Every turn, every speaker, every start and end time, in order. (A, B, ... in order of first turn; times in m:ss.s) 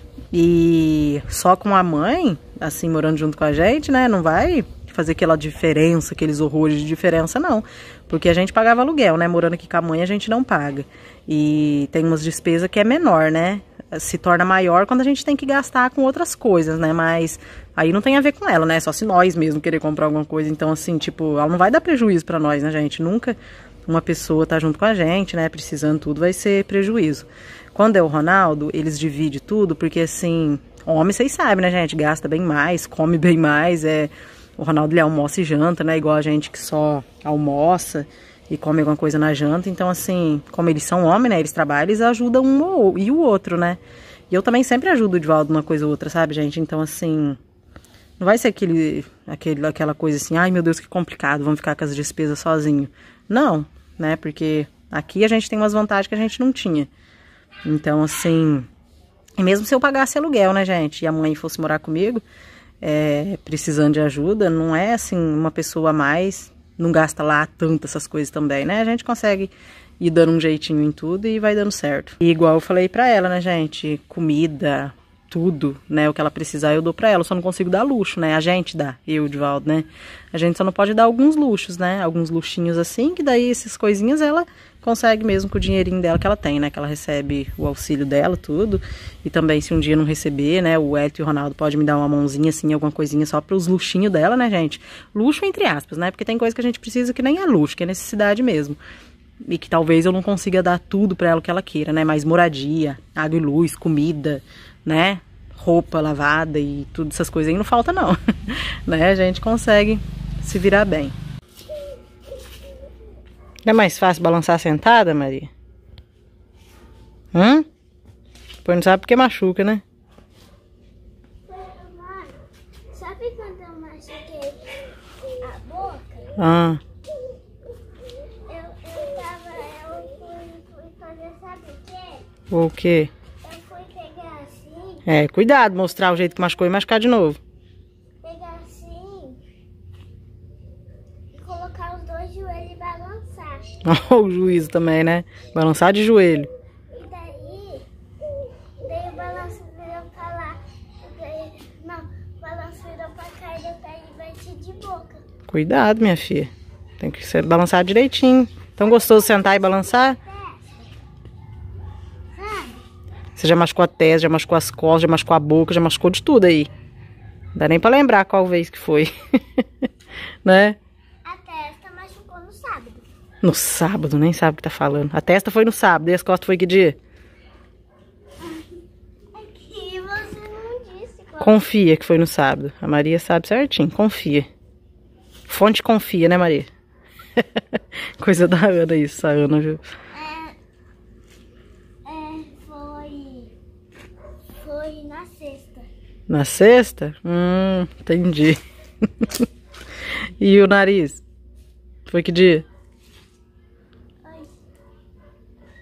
0:00.3-0:43.8 A
0:44.3-0:47.4 A
0:48.2-0:56.9 A
0:57.6-0:58.7 A
0:59.4-1:02.2 A
1:02.8-1:38.8 A
1:39.4-1:51.2 A
1:53.6-1:55.5 A
1:57.3-1:57.7 A
1:58.6-1:59.8 A
2:01.5-2:02.4 B
2:02.9-2:04.7 B
2:05.4-2:06.3 B
2:06.4-2:06.8 A
2:08.5-2:12.2 B
2:12.5-2:13.1 A
2:13.4-2:15.0 B
2:15.1-2:17.4 A
2:18.2-2:19.4 B
2:21.4-2:23.7 B
2:23.8-2:26.5 A
2:26.9-2:27.9 B
2:28.8-2:35.2 B
2:35.5-2:40.2 A
2:40.2-2:40.6 B
2:42.4-2:42.8 B
2:43.4-2:46.7 A
2:47.6-2:49.1 A
2:50.4-2:50.8 A
2:51.2-2:53.0 B
2:53.4-2:57.0 A
2:58.4-2:58.8 B
2:59.4-3:01.6 B
3:01.4-3:04.5 A
3:05.5-3:06.7 A
3:08.2-3:09.8 A
3:10.1-3:10.5 B
3:12.0-3:13.5 B
3:14.6-3:15.9 B
3:16.3-3:18.6 A
3:20.4-3:21.2 A
3:22.1-3:22.6 A